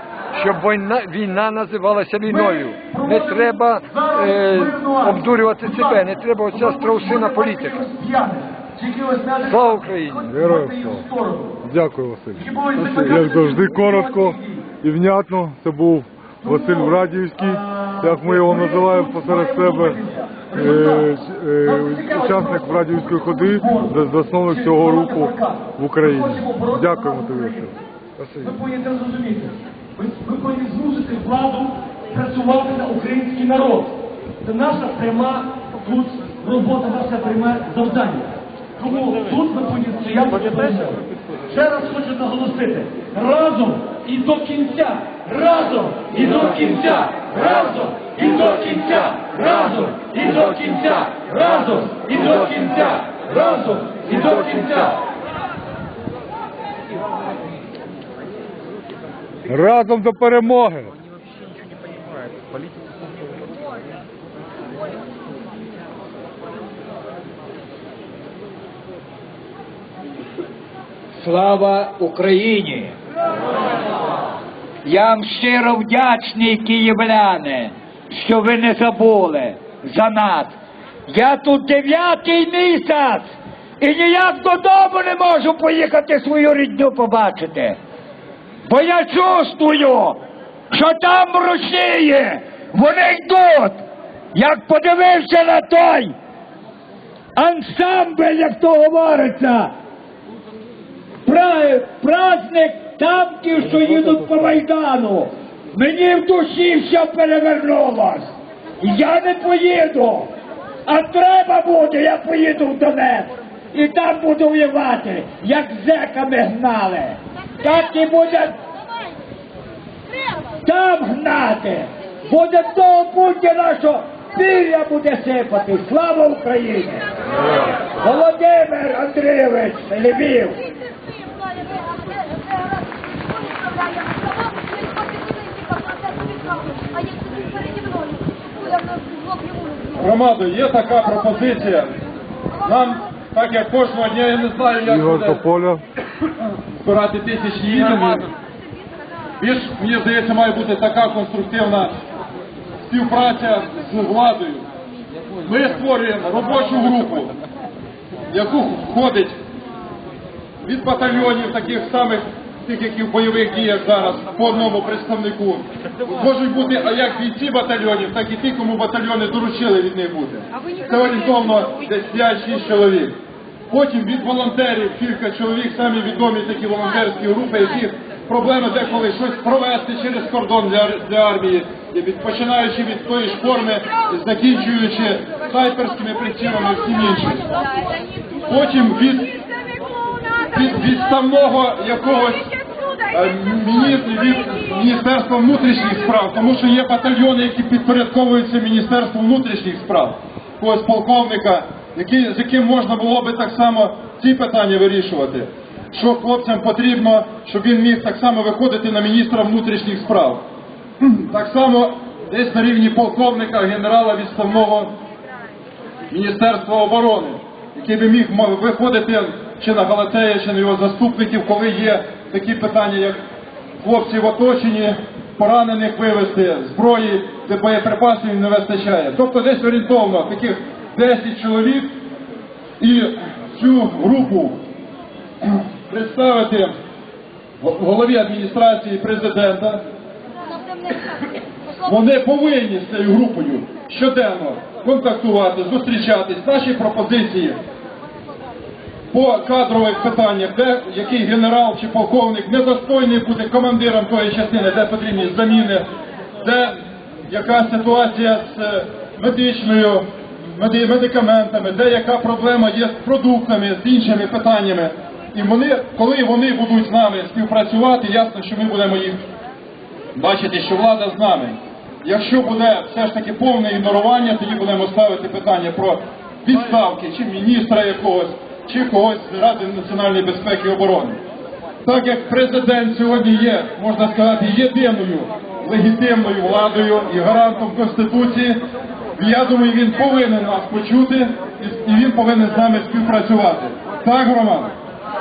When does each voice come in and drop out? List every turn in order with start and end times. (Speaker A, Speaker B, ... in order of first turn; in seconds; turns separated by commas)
Speaker A: 0.3-7.9, Speaker B: 2.3-11.6, Speaker A: 9.4-10.5, Speaker C: 10.5-10.8, Speaker C: 11.7-20.0, Speaker B: 12.4-14.7, Speaker A: 12.8-13.1, Speaker B: 16.4-27.7, Speaker C: 20.6-27.7, Speaker A: 28.2-28.5, Speaker B: 28.4-55.0, Speaker A: 59.5-59.8, Speaker C: 59.5-60.9, Speaker D: 71.2-72.9, Speaker D: 74.8-80.5, Speaker D: 81.1-87.8, Speaker D: 88.7-90.2, Speaker D: 90.7-93.8, Speaker D: 94.3-96.2, Speaker D: 97.4-99.7, Speaker D: 101.2-110.3, Speaker D: 110.9-118.6, Speaker D: 120.6-130.6, Speaker E: 140.0-141.9, Speaker E: 142.6-145.4, Speaker C: 144.9-145.8, Speaker E: 146.8-148.3, Speaker E: 149.4-151.9, Speaker E: 152.9-154.7, Speaker E: 155.4-157.3, Speaker E: 158.3-159.4, Speaker E: 160.6-173.2, Speaker E: 173.7-187.5, Speaker E: 188.5-189.3, Speaker E: 190.5-192.5, Speaker E: 193.1-210.4, Speaker E: 211.0-214.9, Speaker E: 216.1-223.2, Speaker E: 223.8-231.9, Speaker E: 232.8-234.6, Speaker E: 235.4-236.7, Speaker E: 237.6-239.8, Speaker E: 241.8-247.6, Speaker E: 249.1-255.9, Speaker E: 256.4-269.2, Speaker E: 270.1-281.2, Speaker E: 281.8-288.6, Speaker E: 289.2-294.7